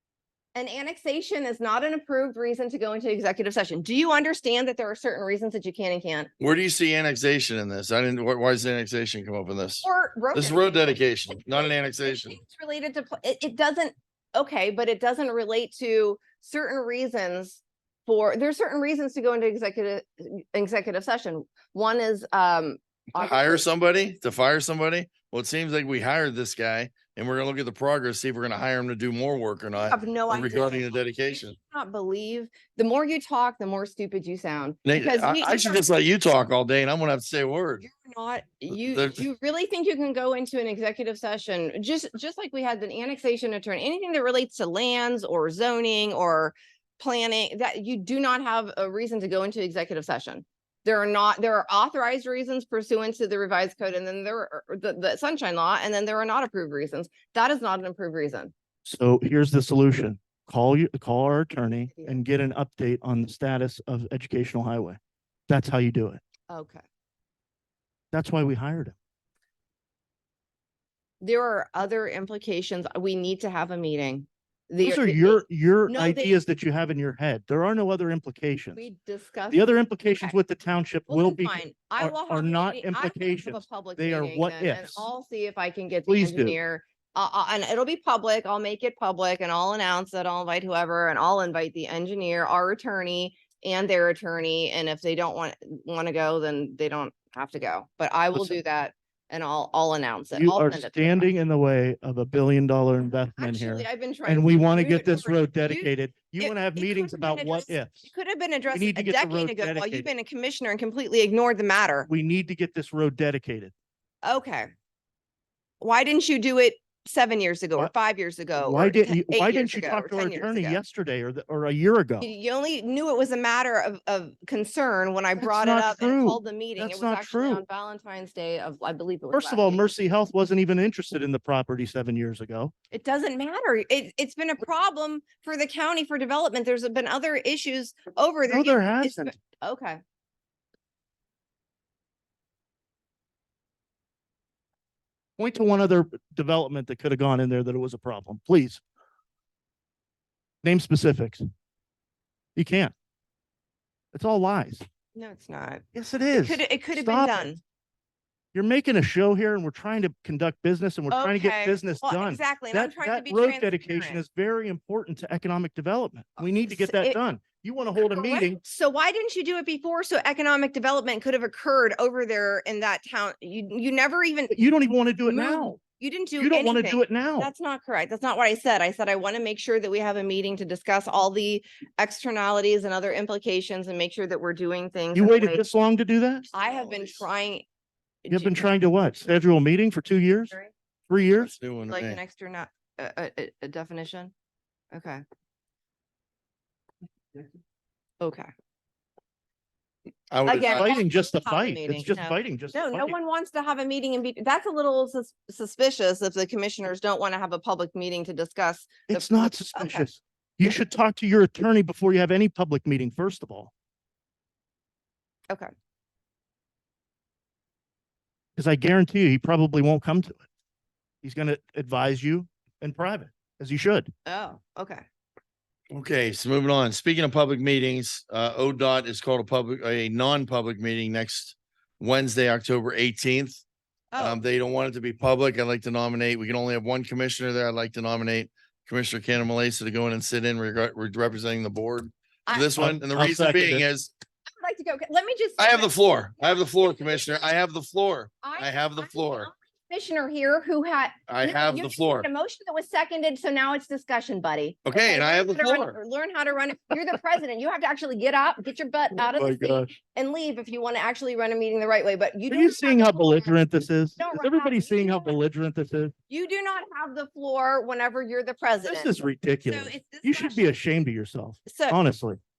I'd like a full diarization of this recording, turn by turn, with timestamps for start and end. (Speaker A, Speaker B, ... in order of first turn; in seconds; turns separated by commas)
Speaker A: 0.5-6.3, Speaker B: 6.4-12.4, Speaker A: 9.8-23.6, Speaker B: 23.1-31.5, Speaker A: 29.8-35.8, Speaker B: 34.8-37.9, Speaker A: 37.8-58.5, Speaker B: 38.7-39.2, Speaker C: 58.8-66.2, Speaker A: 61.9-62.2, Speaker A: 66.5-66.8, Speaker C: 68.1-69.0, Speaker A: 71.2-76.4, Speaker C: 74.8-78.8, Speaker A: 78.7-80.3, Speaker C: 79.5-85.1, Speaker A: 81.1-101.2, Speaker C: 86.1-86.6, Speaker C: 100.3-108.1, Speaker A: 103.4-112.1, Speaker C: 108.7-110.1, Speaker C: 112.1-113.7, Speaker A: 114.2-114.7, Speaker A: 115.8-120.8, Speaker C: 118.6-122.3, Speaker A: 122.2-129.8, Speaker C: 125.4-127.6, Speaker C: 129.3-132.7, Speaker A: 132.9-140.0, Speaker C: 138.5-139.3, Speaker C: 145.4-148.8, Speaker C: 150.6-151.4, Speaker C: 152.6-152.9, Speaker C: 154.1-154.8, Speaker A: 155.1-155.8, Speaker C: 155.9-157.6, Speaker A: 156.3-157.6, Speaker C: 158.5-168.6, Speaker A: 161.1-164.2, Speaker A: 166.4-167.2, Speaker A: 168.0-174.5, Speaker C: 174.5-175.8, Speaker A: 175.2-185.6, Speaker C: 176.4-177.5, Speaker C: 185.1-186.5, Speaker B: 186.5-187.2, Speaker A: 186.5-187.7, Speaker A: 188.2-188.8, Speaker C: 188.3-190.6, Speaker C: 191.1-191.5, Speaker B: 191.4-192.2, Speaker A: 191.9-194.3, Speaker A: 194.9-195.2, Speaker A: 198.2-198.5, Speaker B: 200.3-200.9, Speaker A: 200.4-210.1, Speaker C: 200.6-203.1, Speaker C: 209.1-213.7, Speaker C: 218.6-220.5, Speaker C: 221.2-224.1, Speaker A: 224.2-225.0, Speaker B: 225.9-233.6, Speaker A: 234.1-234.4, Speaker B: 234.2-244.1, Speaker A: 242.5-242.7, Speaker C: 242.8-243.8, Speaker A: 244.6-247.2, Speaker B: 245.6-249.5, Speaker A: 248.4-263.5, Speaker B: 251.3-252.3, Speaker B: 254.8-255.9, Speaker C: 259.3-259.9, Speaker C: 262.5-266.1, Speaker A: 264.2-265.4, Speaker A: 266.3-269.1, Speaker C: 268.8-272.4, Speaker A: 269.6-270.8, Speaker A: 271.6-272.0